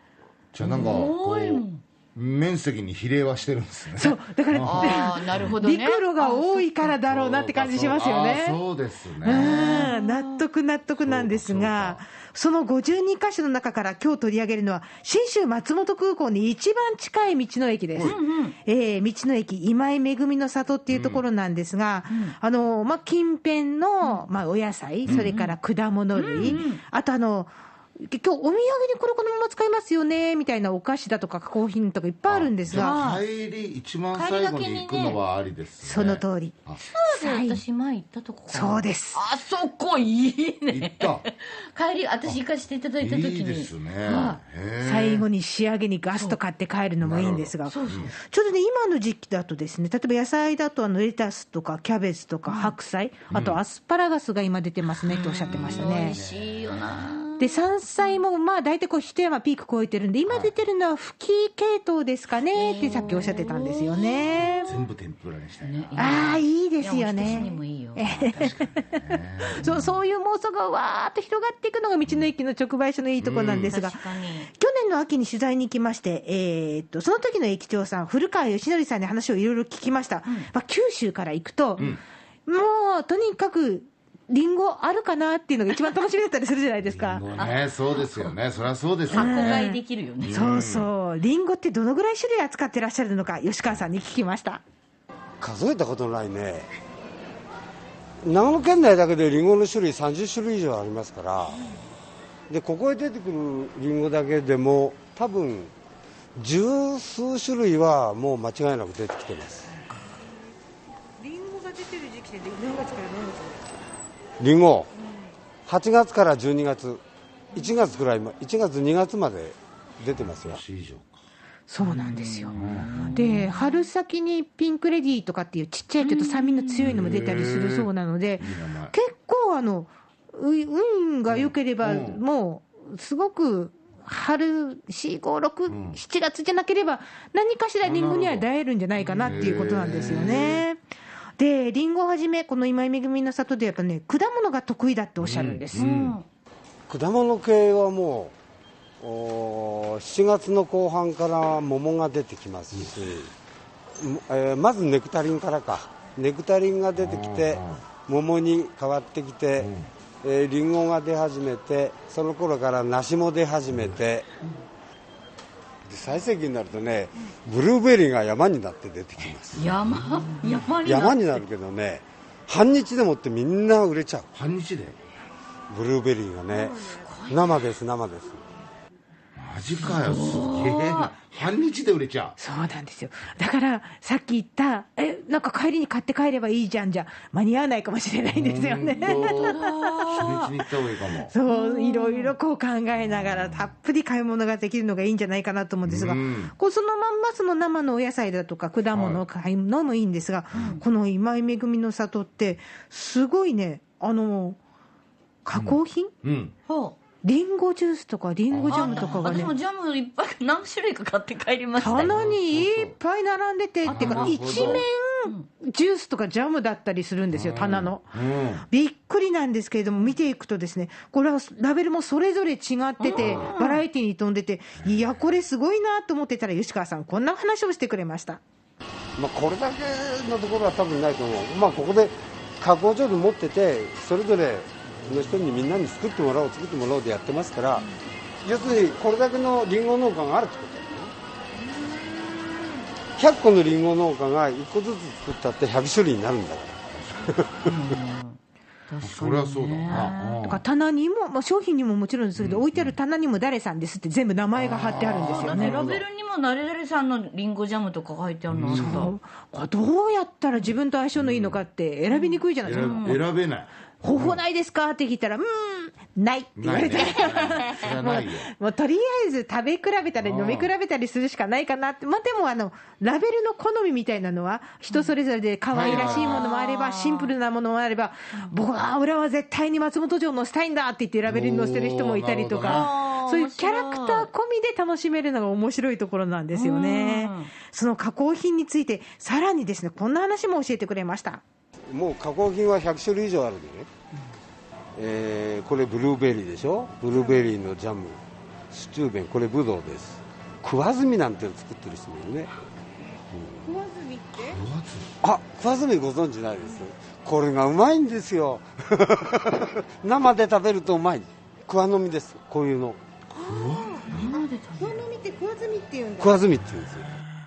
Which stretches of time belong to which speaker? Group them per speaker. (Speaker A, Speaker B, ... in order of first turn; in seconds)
Speaker A: 0.5-5.5, 7.0-9.9, 11.0-12.0, 20.9-21.2, 25.1-25.3, 26.4-26.6, 32.3-36.8, 40.7-41.2, 43.0-45.2, 47.0-48.1, 53.3-53.6, 55.5-57.0, 60.3-60.5, 64.3-66.2, 67.2-69.9, 73.2-73.8, 86.8-89.7, 90.2-90.9, 120.1-121.2, 122.5-122.9, 126.8-128.9, 131.3-132.2, 135.7-136.0, 137.8-138.4, 139.0-140.6, 145.2-146.2, 156.9-157.8, 159.6-159.9, 174.3-175.0, 179.3-182.4, 188.3-191.3, 195.8-196.5, 198.9-199.2, 200.5-200.8, 205.5-206.5, 208.5-209.5, 211.9-212.9, 213.8-214.8, 217.3-218.6, 223.2-223.5, 224.8-225.3, 246.9-247.4, 249.0-250.6, 252.3-252.9, 254.6-256.0, 258.5-259.1, 261.1-261.6, 262.6-264.4, 266.6-268.5, 270.2-270.7, 275.7-276.5, 281.2-282.9, 304.4-305.1, 313.3-314.4
Speaker B: 0.6-1.8, 4.6-7.0, 9.2-10.4, 18.0-18.6, 22.1-22.4, 25.1-25.5, 26.1-26.8, 32.7-33.2, 34.1-35.2, 36.9-44.4, 46.1-46.4, 47.6-48.1, 52.5-52.7, 55.0-58.2, 62.5-64.8, 65.6-68.5, 73.5-74.5, 87.3-88.3, 89.1-90.8, 121.8-123.8, 126.0-126.9, 145.7-146.2, 169.5-171.4, 176.5-177.7, 179.7-181.1, 189.0-190.5, 191.5-192.3, 200.5-200.8, 206.7-206.9, 208.7-212.1, 213.8-215.4, 223.0-223.8, 247.7-250.6, 255.0-259.1, 262.1-263.2, 275.8-277.3, 282.6-284.3, 286.5-287.5, 314.0-315.0
Speaker C: 4.0-8.6, 9.2-33.0, 35.8-36.6, 37.1-37.6, 38.5-39.2, 44.8-56.2, 57.4-64.7, 66.0-81.9, 82.5-87.2, 89.1-94.6, 111.2-113.6, 121.7-140.8, 141.4-145.8, 182.4-190.4, 191.3-204.6, 205.4-206.1, 207.2-209.5, 211.8-228.4, 250.4-255.8, 258.7-263.2, 264.0-291.4, 303.6-304.6, 313.4-316.4
Speaker D: 95.4-96.7, 98.2-101.7, 102.5-105.7, 106.3-109.7, 114.4-114.9, 115.7-117.0, 117.5-120.6, 146.9-148.3, 149.0-153.3, 154.0-164.2, 165.8-169.8, 170.8-174.3, 175.7-178.4, 229.2-237.8, 238.4-241.1, 243.2-247.7, 291.9-293.9, 294.9-298.2, 298.7-302.5, 303.3-303.7, 305.2-313.0, 316.2-317.2